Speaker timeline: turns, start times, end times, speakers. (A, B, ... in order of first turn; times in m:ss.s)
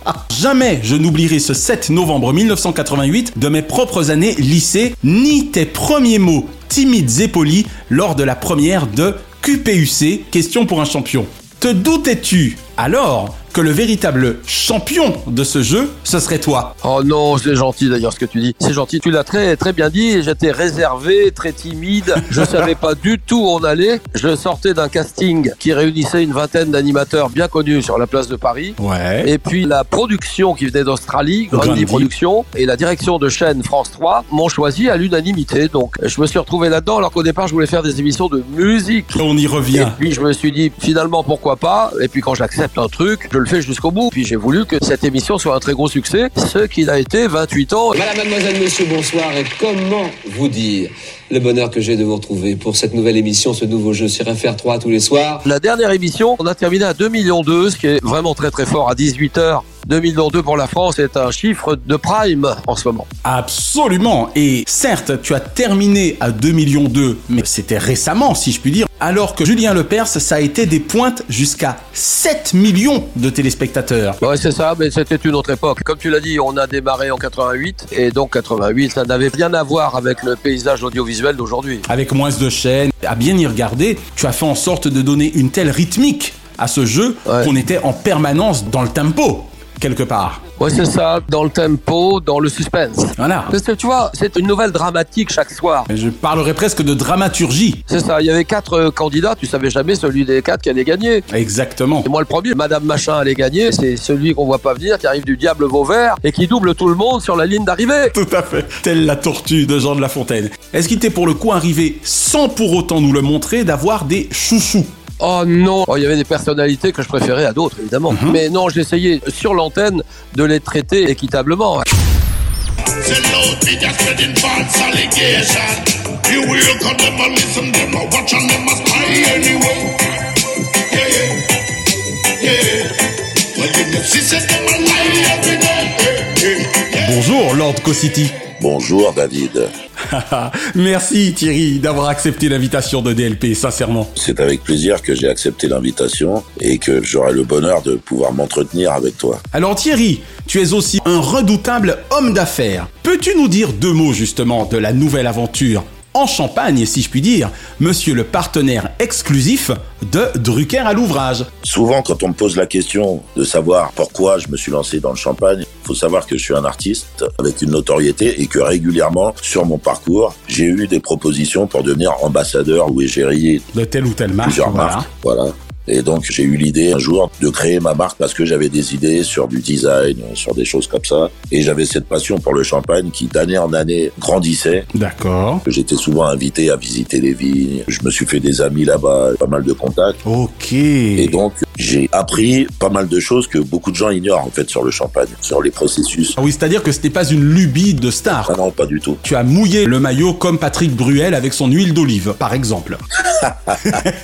0:00.3-0:16.8 A
0:16.8-0:39.1 B
0:22.3-0:22.6 A
0:28.8-0:29.3 A
0:31.5-0:32.1 A
0:39.1-0:40.0 A
0:39.7-0:48.0 B
0:48.0-0:55.4 C
0:55.4-1:03.1 B
1:03.2-1:14.2 A
1:14.2-1:21.9 B
1:21.9-1:30.4 A
1:30.6-1:35.9 B
1:33.2-1:33.6 A
1:35.9-1:37.8 A
1:37.9-1:41.2 B
1:41.3-1:42.1 A
1:42.0-1:48.1 B
1:48.1-1:54.9 A
1:55.2-2:01.8 B
1:58.1-1:58.4 A
2:03.0-2:10.0 D
2:10.9-2:11.4 D
2:12.4-2:12.9 D
2:13.6-2:17.1 D
2:17.0-2:18.3 A
2:18.6-2:19.7 E
2:20.1-2:24.1 A
2:24.2-2:29.4 E
2:29.5-2:41.5 A
2:41.6-2:53.6 E
2:53.7-2:55.1 A
2:54.4-3:04.8 E
3:04.9-3:05.6 A
3:05.7-3:10.2 E
3:10.2-3:11.4 A
3:11.2-3:16.4 E
3:16.4-3:18.5 A
3:18.5-3:19.2 E
3:19.2-3:23.0 A
3:23.4-3:24.0 E